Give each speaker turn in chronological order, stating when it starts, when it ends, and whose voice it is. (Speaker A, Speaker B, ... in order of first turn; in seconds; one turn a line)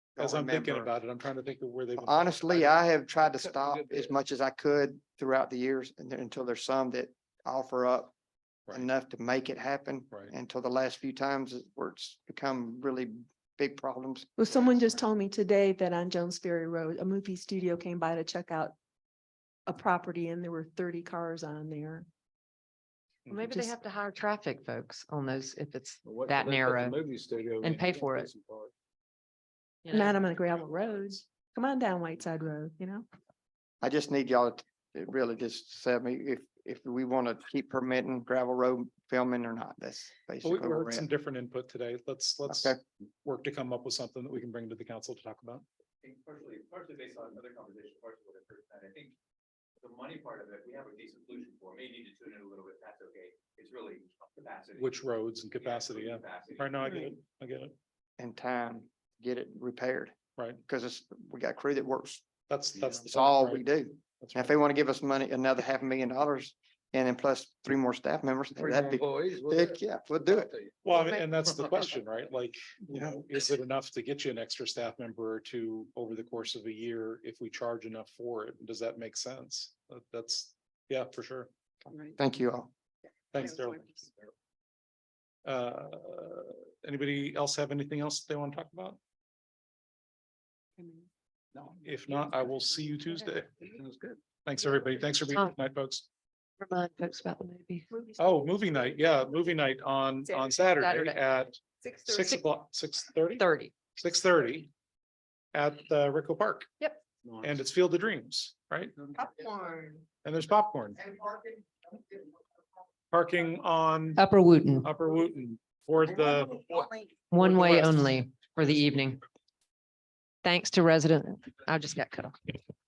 Speaker A: 0.2-0.9
Speaker B: 0.2-2.8
Speaker A: 2.0-8.1
Speaker A: 8.7-15.0
Speaker C: 14.4-18.8
Speaker C: 19.7-22.1
Speaker D: 23.3-27.0
Speaker E: 26.1-28.7
Speaker D: 27.6-28.3
Speaker D: 29.9-30.3
Speaker C: 29.9-33.0
Speaker A: 33.8-41.1
Speaker B: 40.4-45.6
Speaker A: 42.5-42.8
Speaker F: 46.0-49.1
Speaker F: 49.8-55.0
Speaker B: 54.8-57.8
Speaker F: 55.6-57.0
Speaker A: 58.2-60.1
Speaker A: 60.6-62.3
Speaker B: 62.5-63.7
Speaker A: 62.9-70.5
Speaker B: 64.2-64.5
Speaker E: 68.6-70.8
Speaker B: 70.8-81.5
Speaker A: 82.2-82.7
Speaker B: 83.3-84.1
Speaker B: 85.5-89.0
Speaker C: 90.8-91.1
Speaker B: 91.5-93.7
Speaker E: 93.7-94.2
Speaker B: 94.5-96.1
Speaker D: 96.6-97.9
Speaker C: 97.9-98.5
Speaker B: 98.2-103.5
Speaker C: 100.3-100.7
Speaker D: 100.8-101.2
Speaker C: 101.8-102.2
Speaker D: 102.2-102.4
Speaker D: 103.4-103.7
Speaker B: 104.0-104.7
Speaker B: 105.5-106.7
Speaker B: 107.4-109.0
Speaker C: 109.2-110.0
Speaker B: 110.2-111.0
Speaker B: 113.1-114.2
Speaker D: 114.2-114.9
Speaker B: 114.8-116.7
Speaker D: 117.3-119.2
Speaker B: 117.4-118.0
Speaker D: 120.4-122.6